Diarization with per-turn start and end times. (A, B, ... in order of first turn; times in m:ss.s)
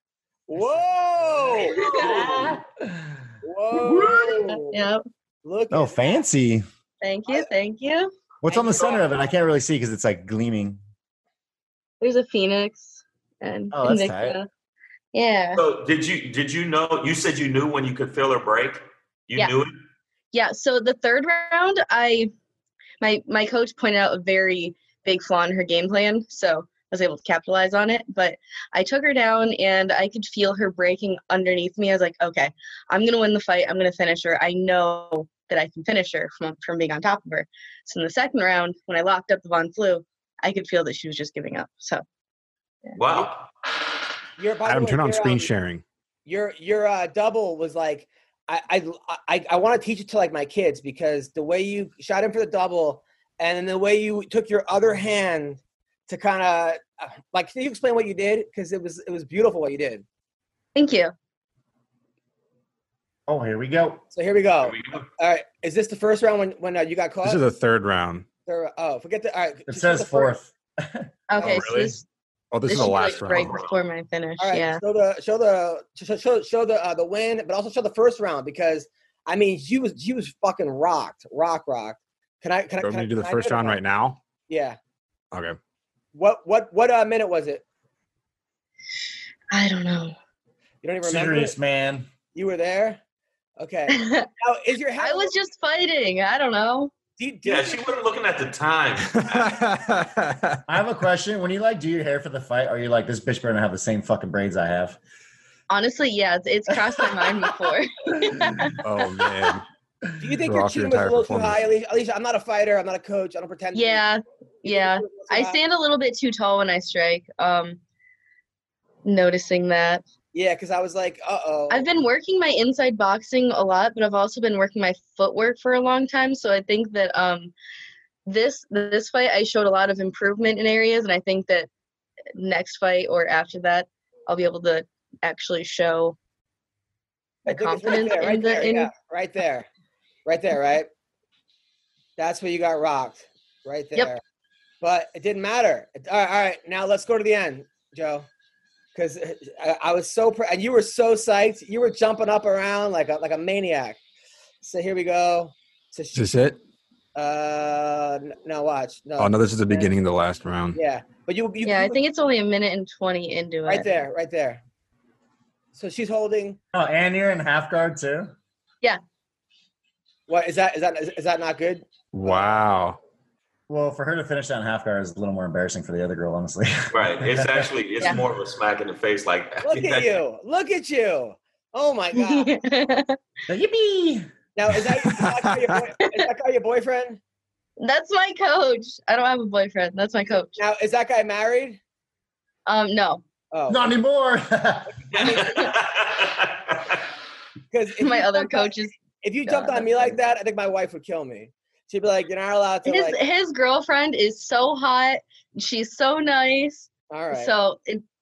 0:00.5-0:01.8 A
0:00.6-0:01.3 B
0:01.6-0:02.5 C
0:01.7-0:02.4 D
0:02.0-0:03.1 B
0:03.4-0:04.8 A
0:03.8-0:04.3 B
0:04.0-0:05.0 D
0:05.4-0:06.2 A
0:05.7-0:06.7 B
0:07.0-0:08.1 D
0:08.4-0:10.8 B
0:08.5-0:09.1 A
0:08.7-0:09.0 C
0:12.0-0:14.5 D
0:13.7-0:14.4 B
0:15.1-0:15.6 D
0:15.5-0:19.8 C
0:20.3-0:22.3 D
0:23.0-0:42.0 D
0:43.0-0:43.5 C
0:44.4-0:45.5 A
0:44.6-0:45.8 E
0:46.3-1:00.0 A
1:00.8-1:01.1 D
1:03.3-1:04.0 B
1:04.1-1:07.4 A
1:04.6-1:05.1 C
1:07.2-1:08.3 E
1:08.5-1:10.3 A
1:09.7-1:11.1 B
1:11.3-1:12.0 D
1:11.4-1:11.7 A
1:11.4-1:12.0 E
1:12.5-1:13.6 E
1:12.7-1:14.8 D
1:13.2-1:13.8 C
1:14.4-1:23.8 A
1:22.8-1:24.2 E
1:24.5-1:24.8 A
1:25.3-1:25.6 E
1:26.1-1:27.6 A
1:29.5-1:30.2 D
1:30.8-1:31.6 A
1:31.0-1:32.1 B
1:32.3-1:33.0 A
1:33.6-1:35.4 A
1:33.9-1:34.3 D
1:35.0-1:36.9 D
1:37.2-1:37.9 A
1:37.4-1:39.7 C
1:39.1-1:40.6 E
1:40.7-1:45.0 B
1:45.7-1:49.3 D
1:48.8-1:49.6 E
1:50.2-1:54.0 A
1:50.5-1:51.6 E
1:53.7-1:57.8 D
1:54.6-1:55.6 A
1:59.0-2:00.1 D
2:00.3-2:01.9 A
2:01.7-2:07.5 D
2:08.3-2:11.7 D
2:12.4-2:16.2 D
2:17.5-2:19.7 A
2:17.5-2:18.9 D
2:20.3-2:20.9 A
2:22.2-2:24.2 A
2:24.8-2:28.3 A
2:29.0-2:34.0 A
2:34.6-2:36.3 A
2:36.2-2:36.6 E
2:37.2-2:39.9 A
2:39.2-2:40.8 E
2:40.8-2:42.0 A
2:41.6-2:43.9 D
2:43.7-2:44.6 A
2:45.7-2:46.6 A
2:46.7-2:48.4 B
2:50.3-2:52.6 A
2:52.1-2:53.0 E
2:53.7-2:57.7 B
2:56.9-3:00.1 C
2:59.6-3:02.5 A
3:02.1-3:03.2 D
3:03.5-3:04.9 B
3:04.6-3:07.2 A
3:05.4-3:05.8 E
3:06.0-3:06.3 D
3:07.8-3:10.6 D
3:10.6-3:11.8 A
3:12.7-3:13.2 D
3:13.5-3:13.9 A
3:13.7-3:15.0 B
3:15.0-3:15.7 A
3:15.1-3:17.0 C
3:17.7-3:23.2 A
3:18.0-3:20.2 D
3:22.8-3:28.0 D
3:27.1-3:27.5 A